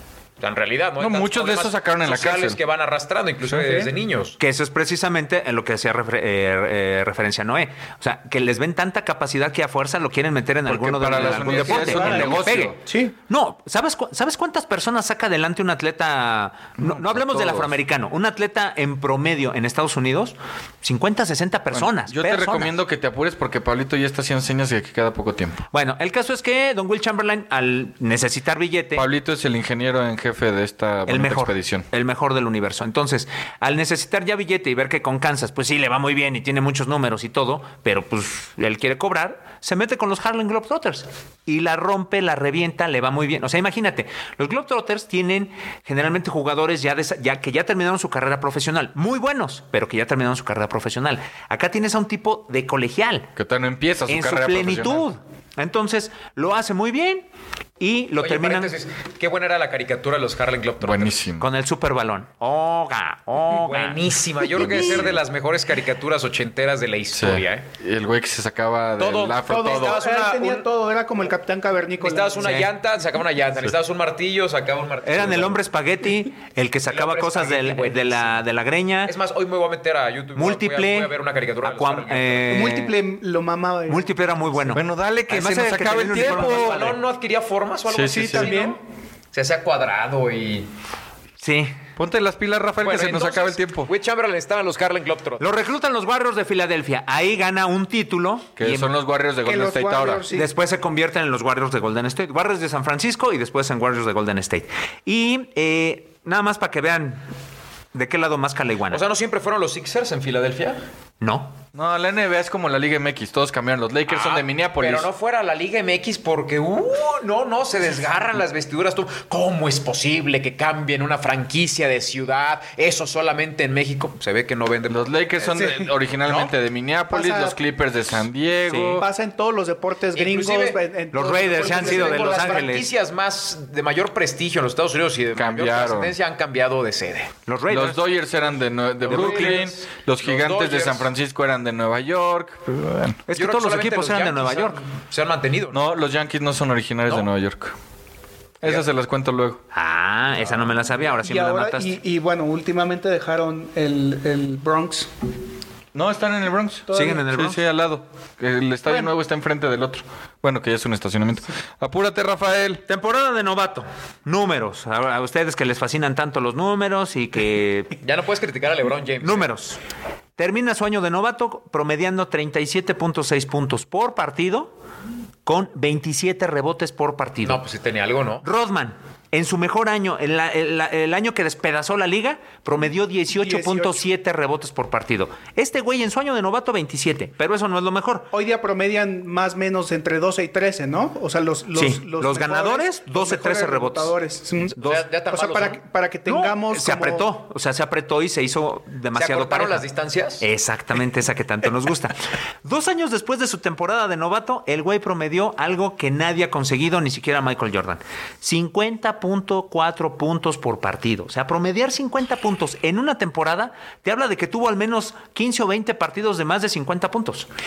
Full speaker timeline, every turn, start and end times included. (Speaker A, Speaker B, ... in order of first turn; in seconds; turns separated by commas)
Speaker A: 0.4-4.4, Speaker B: 1.0-2.6, Speaker C: 3.5-3.9, Speaker D: 4.4-22.7, Speaker B: 10.7-12.8, Speaker C: 11.2-13.1, Speaker B: 16.8-17.8, Speaker B: 21.7-25.6, Speaker D: 25.7-29.1, Speaker B: 28.9-31.9, Speaker D: 31.1-53.3, Speaker B: 53.4-55.1, Speaker D: 54.1-57.3, Speaker D: 57.8-58.8, Speaker A: 58.2-61.2, Speaker B: 60.8-61.5, Speaker D: 61.4-64.0, Speaker A: 63.5-67.7, Speaker B: 64.6-65.1, Speaker B: 67.1-70.0, Speaker A: 69.0-70.7, Speaker C: 69.5-72.6, Speaker A: 72.0-75.6, Speaker D: 72.4-72.7, Speaker D: 75.0-79.1, Speaker A: 76.9-78.4, Speaker A: 79.0-82.8, Speaker D: 80.3-81.1, Speaker D: 81.6-83.0, Speaker C: 82.5-84.1, Speaker D: 83.9-87.0, Speaker B: 84.7-86.9, Speaker A: 86.1-88.8, Speaker B: 87.9-88.5, Speaker C: 88.1-88.8, Speaker A: 89.3-90.7, Speaker D: 91.4-91.8, Speaker B: 92.0-93.9, Speaker A: 92.8-95.4, Speaker D: 95.4-98.9, Speaker B: 98.6-100.2, Speaker C: 99.5-100.5, Speaker D: 100.3-107.2, Speaker D: 107.9-109.0, Speaker A: 108.9-110.8, Speaker D: 111.2-111.5, Speaker B: 111.7-115.1, Speaker A: 114.1-125.1, Speaker B: 124.9-129.1, Speaker C: 125.5-125.9, Speaker C: 127.1-127.6, Speaker D: 128.7-129.0, Speaker C: 128.9-132.6, Speaker A: 130.1-130.8, Speaker D: 131.1-132.9, Speaker A: 131.6-137.3, Speaker B: 135.3-136.1, Speaker D: 137.4-138.0, Speaker B: 137.7-143.2, Speaker A: 139.0-141.1, Speaker D: 143.3-144.8, Speaker A: 143.3-145.8, Speaker B: 145.7-147.7, Speaker B: 148.6-149.6, Speaker D: 149.7-151.9, Speaker C: 151.1-155.1, Speaker B: 155.9-162.8, Speaker C: 156.9-157.2, Speaker D: 156.9-157.6, Speaker C: 158.9-159.1, Speaker D: 162.9-167.9, Speaker A: 168.0-169.5, Speaker D: 169.2-169.8, Speaker D: 170.4-174.7, Speaker D: 175.4-177.6, Speaker A: 177.4-178.4, Speaker D: 178.4-188.3, Speaker C: 183.3-184.0, Speaker C: 188.3-197.3, Speaker D: 191.7-194.1, Speaker D: 194.8-195.0, Speaker A: 194.8-195.8, Speaker D: 196.2-199.8, Speaker A: 199.1-200.4, Speaker D: 200.4-217.5